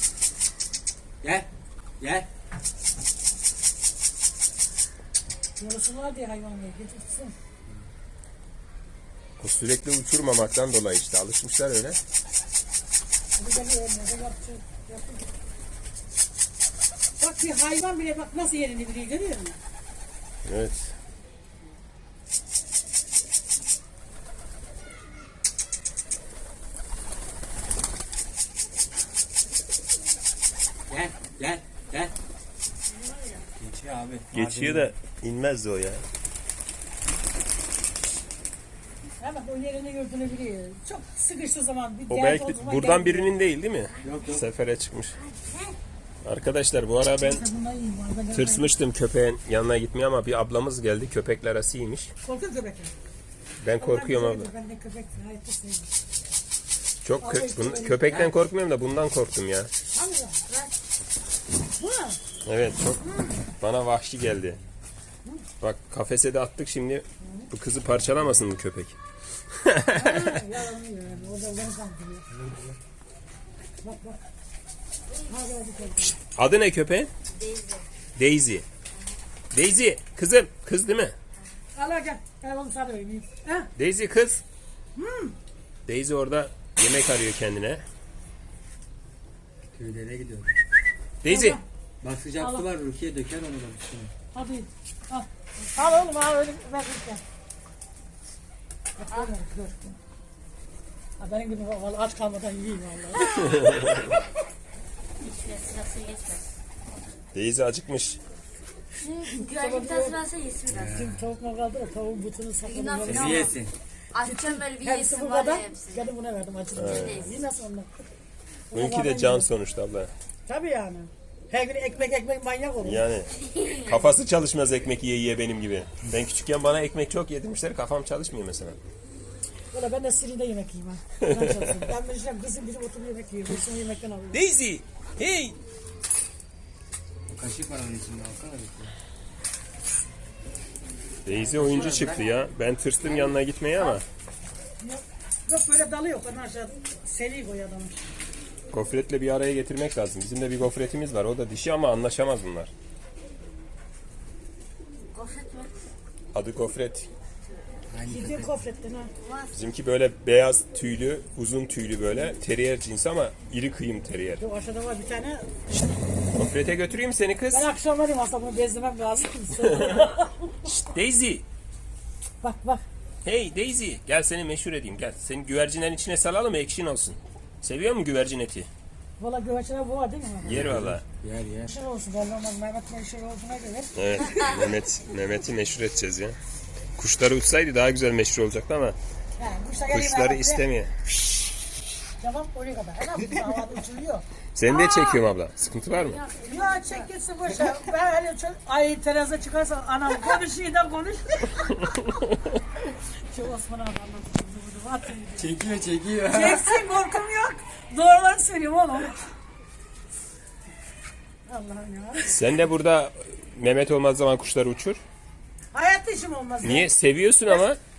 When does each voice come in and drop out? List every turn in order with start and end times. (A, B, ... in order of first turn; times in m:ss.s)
0:01.2-0:01.5 A
0:02.0-0:02.3 A
0:05.6-0:07.3 B
0:09.4-0:12.0 C
0:13.4-0:15.3 B
0:17.2-0:19.6 B
0:20.4-0:20.9 C
0:30.9-0:32.1 A
0:33.6-0:34.9 A
0:34.3-0:36.0 C
0:39.2-0:43.3 B
0:42.1-0:45.2 C
0:44.0-0:44.4 A
0:45.3-0:45.7 D
0:46.2-0:47.4 C
0:47.2-0:48.7 B
0:48.3-0:52.1 C
0:52.2-0:52.9 B
0:53.6-0:54.5 C
0:53.8-0:55.9 B
0:57.0-0:59.7 C
0:57.2-0:58.1 B
0:58.0-0:58.3 A
0:59.9-1:00.7 B
1:01.8-1:02.2 B
1:02.4-1:03.0 C
1:03.0-1:03.3 B
1:03.6-1:04.6 C
1:05.6-1:09.0 C
1:09.5-1:10.4 C
1:09.9-1:12.2 B
1:12.3-1:12.7 A
1:13.8-1:14.2 B
1:15.3-1:16.2 B
1:16.1-1:17.1 C
1:17.3-1:17.8 D
1:18.2-1:18.6 C
1:19.5-1:21.1 C
1:21.8-1:23.7 B
1:23.8-1:24.4 C
1:25.0-1:25.3 B
1:25.9-1:27.8 C
1:29.7-1:30.6 A
1:31.2-1:31.6 C
1:31.2-1:31.6 B
1:32.0-1:34.1 A
1:32.4-1:32.7 B
1:34.3-1:37.2 B
1:39.0-1:40.0 B
1:41.2-1:44.2 B
1:43.4-1:44.0 C
1:45.2-1:46.4 D
1:47.3-1:48.2 C
1:49.0-1:51.1 D
1:49.4-1:50.2 B
1:50.7-1:51.2 A
1:50.9-1:53.6 B
1:52.6-1:53.5 D
1:53.0-1:53.7 A
1:54.1-1:56.1 D
1:54.2-1:57.9 B
1:56.7-1:57.3 C
1:56.8-1:57.4 D
1:58.7-1:59.5 B
1:58.7-2:00.1 C
2:00.4-2:03.0 B
2:02.8-2:08.8 C
2:03.4-2:04.0 D
2:09.7-2:14.4 B
2:11.2-2:11.9 C
2:14.3-2:15.6 C
2:17.3-2:18.9 A
2:21.2-2:24.0 C
2:21.3-2:22.3 A
2:24.8-2:28.0 B
2:28.7-2:32.7 C
2:35.1-2:35.7 D
2:36.3-2:37.1 C
2:37.9-2:38.6 A
2:38.1-2:39.1 B
2:39.2-2:39.5 D
2:39.5-2:44.4 C
2:44.4-2:45.7 B
2:46.3-2:47.7 C
2:47.5-2:50.8 B
2:49.6-2:50.1 C
2:50.7-2:51.4 C
2:52.4-2:52.8 B
2:53.2-2:58.7 C
2:59.2-3:00.7 B
3:00.4-3:01.0 C
3:00.5-3:01.7 A
3:01.7-3:04.7 B
3:04.0-3:06.4 C
3:07.0-3:09.0 C
3:09.4-3:10.6 B
3:09.9-3:11.6 C
3:12.2-3:15.2 B
3:14.5-3:16.2 C
3:16.1-3:22.2 B
3:16.4-3:17.1 D
3:23.3-3:25.5 B
3:25.4-3:26.9 A
3:26.3-3:29.2 B
3:31.5-3:32.4 B
3:32.3-3:35.0 C
3:35.7-3:36.9 B
3:36.6-3:37.8 C